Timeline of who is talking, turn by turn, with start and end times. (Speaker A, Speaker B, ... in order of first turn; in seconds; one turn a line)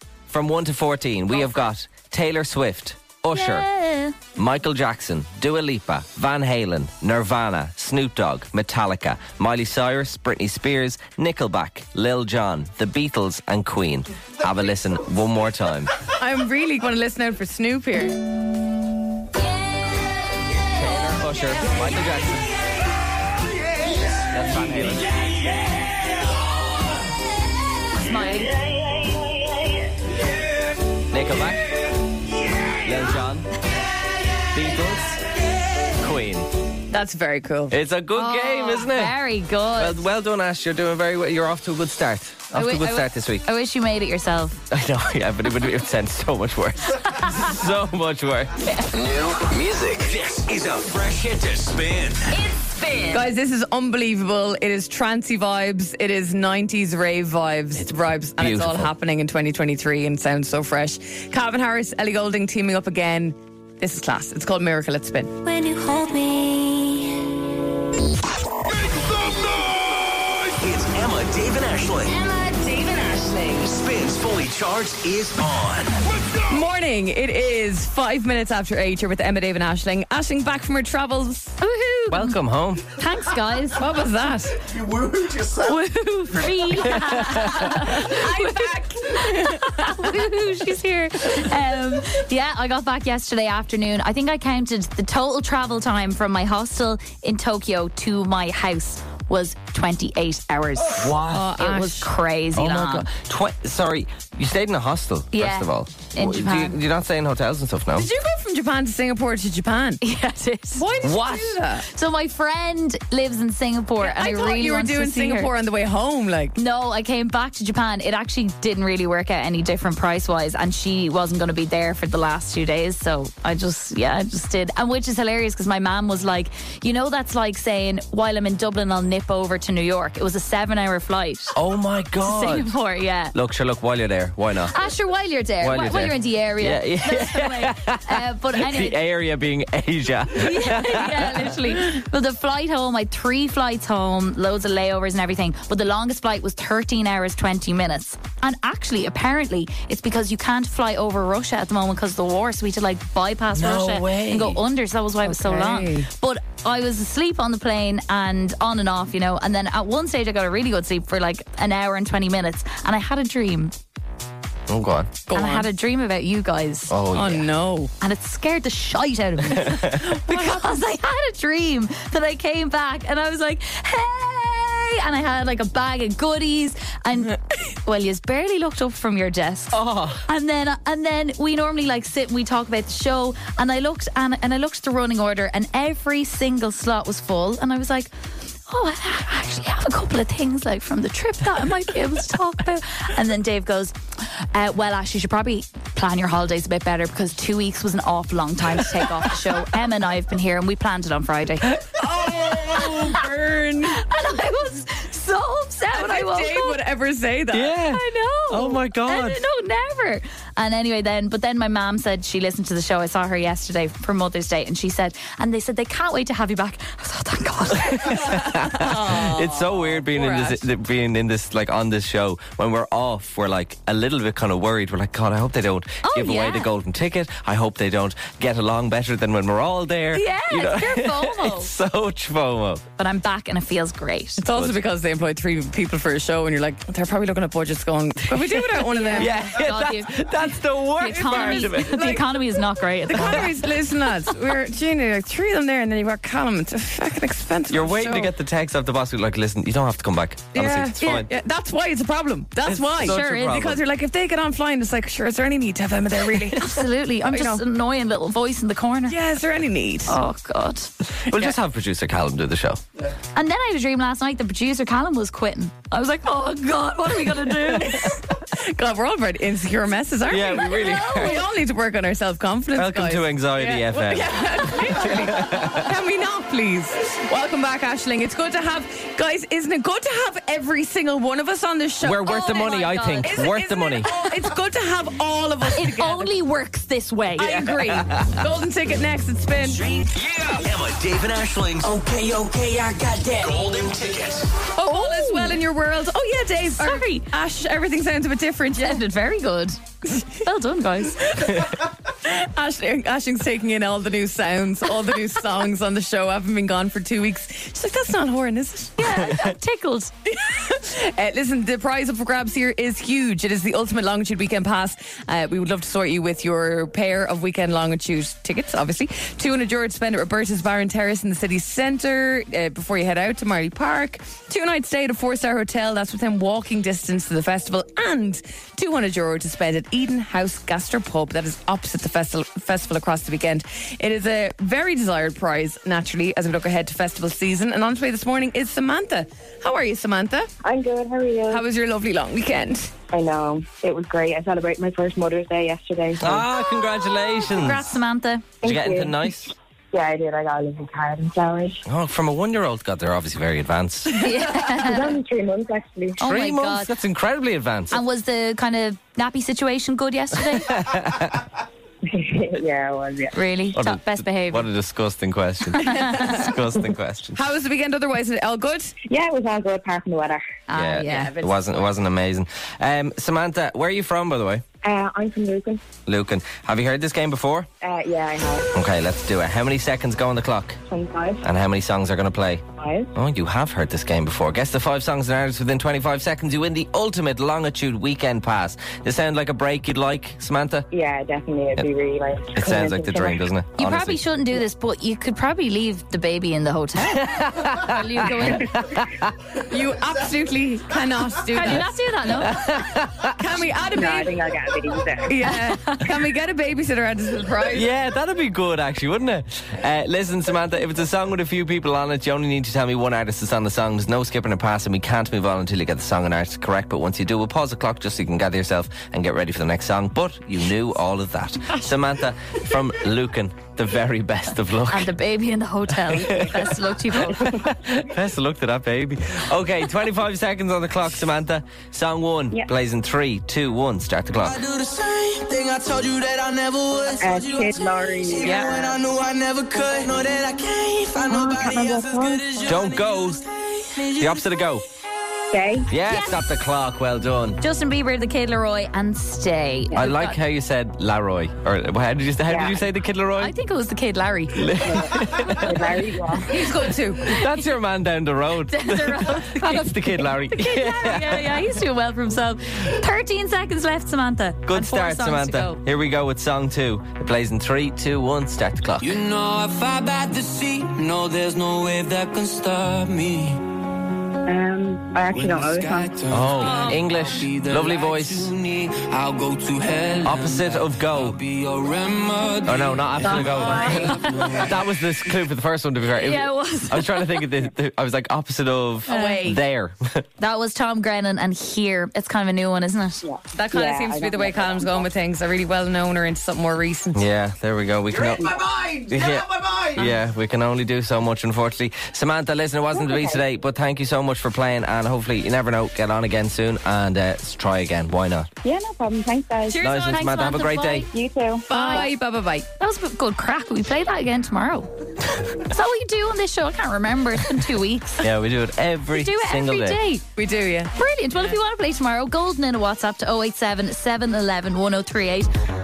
Speaker A: 0.3-3.7
Speaker B: 3.3-4.2
Speaker A: 4.3-15.9
Speaker C: 16.1-18.1
Speaker A: 20.7-22.5
Speaker A: 24.3-25.1
Speaker B: 27.9-28.5
Speaker A: 31.1-31.7
Speaker A: 32.8-33.5
Speaker A: 34.5-35.2
Speaker A: 36.0-36.5
Speaker C: 36.9-37.8
Speaker A: 37.7-39.2
Speaker B: 38.1-40.0
Speaker A: 39.8-43.5
Speaker B: 42.5-44.6
Speaker A: 44.7-48.6
Speaker B: 48.6-48.9
Speaker D: 48.9-50.1
Speaker E: 50.0-52.3
Speaker F: 52.3-53.3
Speaker C: 53.1-65.3
Speaker A: 57.8-58.9
Speaker B: 65.4-67.2
Speaker E: 70.5-72.1
Speaker F: 72.0-73.8
Speaker E: 73.7-76.0
Speaker C: 76.5-81.5
Speaker B: 81.6-83.8
Speaker A: 82.1-82.9
Speaker C: 83.8-84.7
Speaker B: 85.6-103.1
Speaker C: 87.4-90.0
Speaker A: 100.9-101.5
Speaker C: 101.2-102.1
Speaker A: 102.5-108.1
Speaker B: 105.3-106.8
Speaker C: 107.9-110.0
Speaker B: 110.0-110.8
Speaker C: 110.7-111.8
Speaker A: 111.0-111.6
Speaker B: 111.8-115.5
Speaker C: 114.0-116.5
Speaker B: 116.5-131.6
Speaker A: 131.5-132.7
Speaker B: 132.2-133.3
Speaker A: 133.3-134.8
Speaker B: 134.7-139.0
Speaker A: 135.6-141.7
Speaker B: 140.3-163.7
Speaker A: 153.5-154.6
Speaker C: 155.2-156.1
Speaker A: 164.7-165.1
Speaker C: 165.3-165.7
Speaker B: 165.3-166.9
Speaker A: 166.9-167.5
Speaker C: 167.1-167.9
Speaker B: 168.0-188.1
Speaker A: 169.5-170.0
Speaker C: 170.0-170.8
Speaker A: 179.7-180.2
Speaker B: 188.7-201.8
Speaker C: 201.9-204.0
Speaker B: 203.8-206.8
Speaker C: 205.9-207.8
Speaker A: 207.5-209.4
Speaker B: 207.9-218.4
Speaker A: 217.8-232.8
Speaker C: 218.2-220.6
Speaker B: 226.0-226.7
Speaker B: 230.1-231.7
Speaker B: 233.0-234.4
Speaker C: 234.4-239.5
Speaker A: 234.5-234.8
Speaker B: 238.7-243.5
Speaker A: 239.1-242.2
Speaker C: 241.3-242.5
Speaker C: 243.1-248.3
Speaker A: 243.1-243.5
Speaker A: 247.7-251.3
Speaker C: 250.5-256.8
Speaker A: 252.6-253.8
Speaker B: 253.1-253.5
Speaker B: 256.6-259.2
Speaker C: 257.3-257.6
Speaker C: 259.1-260.2
Speaker B: 260.1-260.9
Speaker A: 261.2-262.8
Speaker B: 263.3-268.2
Speaker C: 267.8-286.3
Speaker A: 270.3-271.4
Speaker B: 270.5-271.4
Speaker A: 272.7-275.9
Speaker A: 282.0-284.1
Speaker B: 282.2-283.5
Speaker B: 285.7-287.7
Speaker C: 287.4-289.8
Speaker A: 287.6-288.3
Speaker E: 289.9-292.0
Speaker D: 291.8-293.5
Speaker E: 293.3-294.5
Speaker C: 294.7-299.0
Speaker B: 294.9-295.6
Speaker B: 296.8-297.3
Speaker B: 298.8-301.4
Speaker C: 301.3-309.0
Speaker B: 309.0-310.1
Speaker C: 310.3-340.5
Speaker G: 340.6-341.6
Speaker C: 341.5-342.9
Speaker G: 343.1-346.5
Speaker A: 346.2-347.9
Speaker B: 347.4-348.5
Speaker G: 348.6-351.8
Speaker A: 348.6-349.5
Speaker A: 351.8-354.2
Speaker B: 354.1-355.1
Speaker G: 354.8-356.2
Speaker B: 356.2-356.9
Speaker A: 356.2-358.0
Speaker B: 357.9-360.8
Speaker A: 360.5-361.5
Speaker G: 362.1-363.4
Speaker B: 363.3-364.7
Speaker A: 363.7-367.4
Speaker B: 365.7-366.5
Speaker C: 365.9-366.5
Speaker C: 367.4-368.9
Speaker G: 369.0-370.4
Speaker B: 370.7-371.3
Speaker A: 370.7-374.6
Speaker C: 371.0-371.7
Speaker G: 374.8-375.8
Speaker A: 376.1-377.7
Speaker G: 377.8-378.7
Speaker A: 378.7-380.8
Speaker G: 380.9-381.4
Speaker A: 381.4-382.6
Speaker G: 382.8-383.1
Speaker A: 383.1-390.9
Speaker G: 390.9-393.4
Speaker A: 392.5-394.2
Speaker B: 393.8-398.8
Speaker A: 397.0-399.3
Speaker C: 399.6-401.9
Speaker B: 401.5-402.7
Speaker A: 402.3-403.4
Speaker C: 403.3-404.5
Speaker G: 403.9-405.3
Speaker C: 405.3-407.9
Speaker B: 405.5-406.1
Speaker A: 407.7-425.1
Speaker B: 424.9-427.6
Speaker A: 426.1-434.6
Speaker G: 426.1-426.6
Speaker G: 427.4-427.7
Speaker D: 434.4-444.5
Speaker G: 437.2-438.9
Speaker C: 438.4-438.7
Speaker G: 441.3-442.5
Speaker A: 442.6-443.4
Speaker A: 444.2-444.8
Speaker G: 445.5-445.9
Speaker A: 445.9-447.6
Speaker B: 446.1-446.4
Speaker B: 447.6-450.4
Speaker A: 449.9-453.5
Speaker G: 452.4-452.8
Speaker B: 453.4-454.8
Speaker A: 454.5-455.7
Speaker G: 454.8-456.8
Speaker C: 456.5-457.3
Speaker A: 457.2-461.7
Speaker B: 458.7-465.8
Speaker A: 464.6-469.2
Speaker D: 469.0-473.6
Speaker G: 474.4-476.2
Speaker D: 475.3-484.8
Speaker A: 476.3-478.5
Speaker A: 480.2-481.4
Speaker A: 482.6-490.2
Speaker G: 483.4-483.9
Speaker B: 486.1-487.5
Speaker B: 489.1-489.4
Speaker C: 489.1-489.6
Speaker B: 490.4-493.2
Speaker G: 493.2-495.1
Speaker C: 493.5-497.2
Speaker A: 497.1-498.6
Speaker G: 498.2-498.6
Speaker D: 498.2-499.8
Speaker A: 499.1-508.5
Speaker G: 502.9-503.4
Speaker G: 508.6-510.0
Speaker C: 509.7-510.2
Speaker A: 509.8-511.1
Speaker B: 510.1-511.1
Speaker G: 511.1-512.1
Speaker C: 511.7-512.7
Speaker B: 511.7-512.1
Speaker B: 512.8-514.9
Speaker B: 515.5-518.2
Speaker A: 518.2-520.0
Speaker B: 519.1-520.2
Speaker C: 520.4-521.5
Speaker B: 521.0-525.5